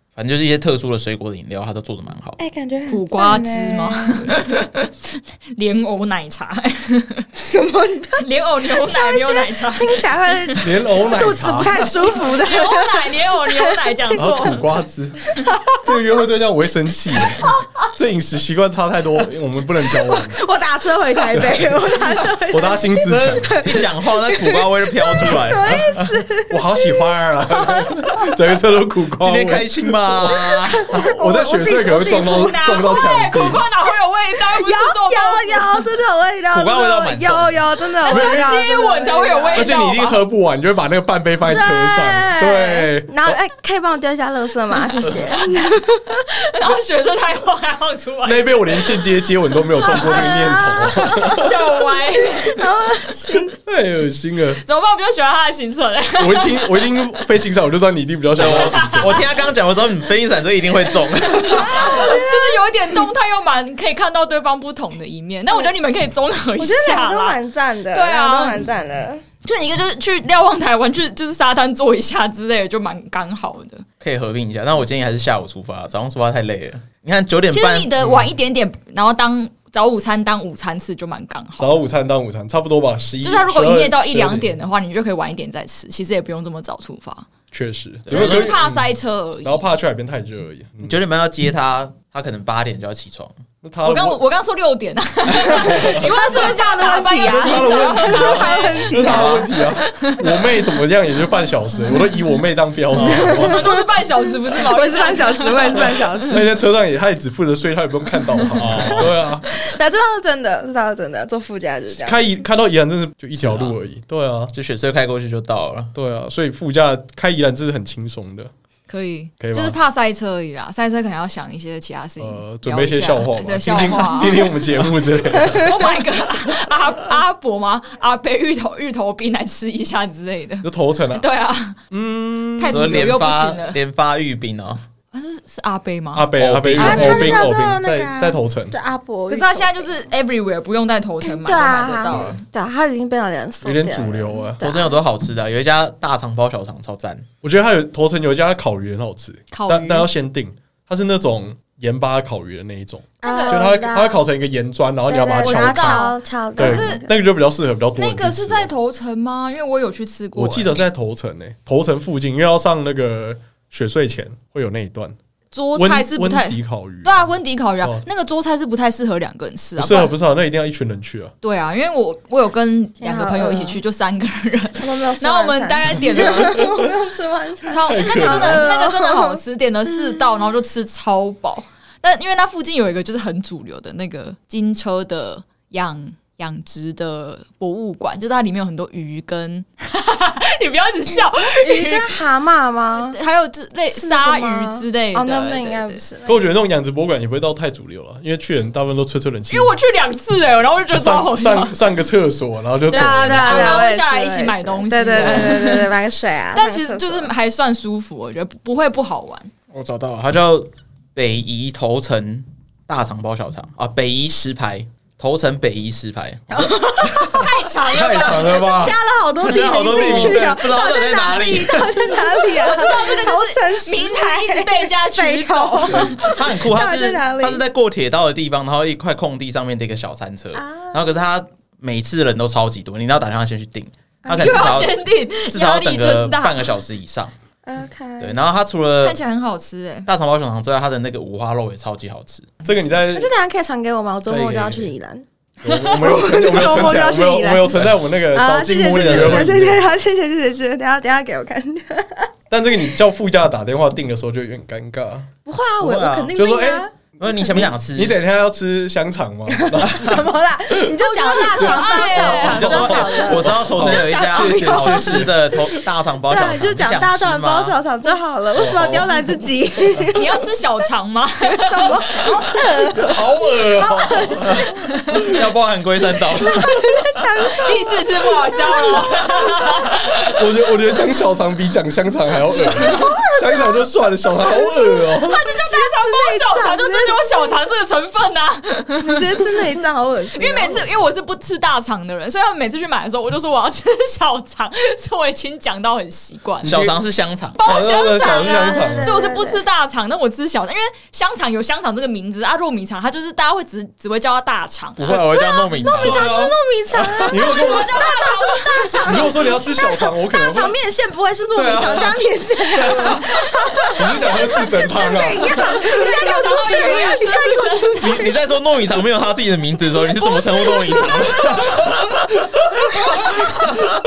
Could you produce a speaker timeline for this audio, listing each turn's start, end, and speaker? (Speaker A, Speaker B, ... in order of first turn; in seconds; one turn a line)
Speaker A: 0.1-2.4
Speaker B: 2.4-4.3
Speaker C: 2.9-7.3
Speaker B: 7.3-14.3
Speaker C: 8.2-10.7
Speaker D: 10.6-11.9
Speaker C: 12.1-14.6
Speaker D: 14.2-15.2
Speaker B: 15.4-16.0
Speaker D: 15.8-20.4
Speaker B: 17.3-17.9
Speaker B: 19.8-28.3
Speaker D: 21.3-23.6
Speaker A: 23.0-26.2
Speaker D: 26.5-33.6
Speaker A: 29.2-31.2
Speaker B: 30.3-32.6
Speaker C: 32.1-35.9
Speaker B: 34.4-39.7
Speaker A: 36.5-37.6
Speaker C: 38.0-40.2
Speaker D: 38.0-38.5
Speaker D: 39.5-43.4
Speaker B: 41.4-46.2
Speaker C: 46.4-48.6
Speaker D: 48.2-51.5
Speaker B: 49.9-53.5
Speaker C: 49.9-50.2
Speaker C: 51.4-52.6
Speaker D: 53.6-54.6
Speaker C: 54.6-56.9
Speaker D: 56.2-59.2
Speaker A: 58.3-62.0
Speaker C: 58.5-59.3
Speaker C: 61.3-67.4
Speaker B: 61.5-63.0
Speaker B: 66.6-69.2
Speaker C: 67.9-68.7
Speaker C: 69.4-73.8
Speaker A: 74.0-77.9
Speaker C: 77.5-81.8
Speaker D: 81.6-84.5
Speaker C: 83.2-87.3
Speaker D: 87.5-88.8
Speaker A: 88.1-88.6
Speaker C: 88.1-89.6
Speaker D: 89.4-91.0
Speaker A: 90.8-93.3
Speaker D: 93.6-94.2
Speaker C: 93.8-99.0
Speaker B: 95.5-99.4
Speaker D: 95.5-96.0
Speaker D: 97.2-103.8
Speaker A: 98.9-99.5
Speaker C: 99.8-100.2
Speaker B: 102.9-103.8
Speaker C: 103.0-106.2
Speaker B: 104.5-106.5
Speaker D: 106.3-109.5
Speaker A: 108.6-109.1
Speaker B: 108.7-112.3
Speaker D: 111.9-114.5
Speaker A: 113.3-113.8
Speaker A: 114.5-115.9
Speaker D: 115.9-118.5
Speaker C: 118.9-124.6
Speaker D: 119.4-119.8
Speaker D: 122.2-125.9
Speaker C: 125.5-131.8
Speaker D: 130.6-131.2
Speaker D: 131.9-133.0
Speaker C: 132.6-133.8
Speaker A: 132.7-134.8
Speaker C: 135.1-137.3
Speaker D: 136.1-138.7
Speaker A: 136.3-137.5
Speaker B: 136.8-139.9
Speaker C: 139.3-142.4
Speaker B: 141.3-145.0
Speaker D: 142.1-142.3
Speaker D: 143.6-144.6
Speaker A: 144.6-147.2
Speaker D: 147.4-158.7
Speaker C: 149.5-150.1
Speaker C: 153.2-153.7
Speaker B: 153.2-154.2
Speaker B: 155.1-157.1
Speaker C: 155.4-157.1
Speaker C: 157.9-160.8
Speaker D: 160.3-165.2
Speaker C: 165.5-170.1
Speaker D: 165.8-168.1
Speaker D: 169.8-171.3
Speaker C: 171.4-176.9
Speaker B: 173.0-173.8
Speaker B: 174.8-179.4
Speaker C: 177.7-192.1
Speaker D: 177.8-178.7
Speaker B: 191.6-193.2
Speaker C: 193.0-196.0
Speaker B: 193.9-196.6
Speaker D: 196.2-199.7
Speaker C: 199.5-201.8
Speaker D: 200.9-203.9
Speaker C: 202.9-205.9
Speaker B: 202.9-207.3
Speaker D: 205.2-205.5
Speaker C: 206.5-209.5
Speaker A: 209.7-217.4
Speaker B: 216.5-217.5
Speaker C: 217.2-218.7
Speaker D: 217.9-219.0
Speaker B: 218.2-227.6
Speaker A: 219.4-222.3
Speaker C: 219.4-220.5
Speaker C: 222.6-226.5
Speaker A: 226.3-237.3
Speaker B: 230.5-231.2
Speaker B: 234.2-234.7
Speaker C: 234.3-236.7
Speaker B: 237.6-238.4
Speaker A: 238.2-239.2
Speaker C: 239.0-240.1
Speaker A: 240.1-242.6
Speaker D: 242.6-243.3
Speaker B: 243.1-252.3
Speaker A: 244.3-244.9
Speaker D: 245.6-249.8
Speaker A: 248.9-249.7
Speaker D: 252.5-255.3
Speaker B: 255.4-256.9
Speaker A: 255.8-256.3
Speaker D: 256.3-260.9
Speaker A: 257.2-258.2
Speaker B: 259.5-265.4
Speaker C: 260.9-262.9
Speaker D: 261.6-265.8
Speaker A: 262.1-267.7
Speaker B: 266.3-270.4
Speaker D: 268.6-269.3
Speaker C: 270.1-272.4
Speaker B: 271.4-274.9
Speaker D: 272.9-274.7
Speaker A: 274.4-276.9
Speaker B: 276.3-279.9
Speaker C: 277.5-280.4
Speaker D: 280.4-285.4
Speaker B: 282.8-283.8
Speaker B: 284.3-287.3
Speaker C: 285.2-289.7
Speaker B: 289.0-290.9
Speaker C: 290.4-296.7
Speaker D: 296.6-297.0
Speaker A: 296.6-297.6
Speaker C: 297.6-306.2
Speaker D: 297.6-299.1
Speaker B: 298.3-299.6
Speaker A: 305.0-306.4
Speaker B: 305.4-318.3
Speaker D: 306.0-306.6
Speaker D: 307.2-308.1
Speaker C: 307.4-309.4
Speaker D: 309.1-310.8
Speaker D: 311.5-312.2
Speaker D: 312.7-313.2
Speaker C: 313.2-313.9
Speaker D: 313.9-315.9
Speaker C: 315.5-318.3
Speaker A: 318.0-322.0
Speaker C: 320.1-321.9
Speaker C: 323.1-323.7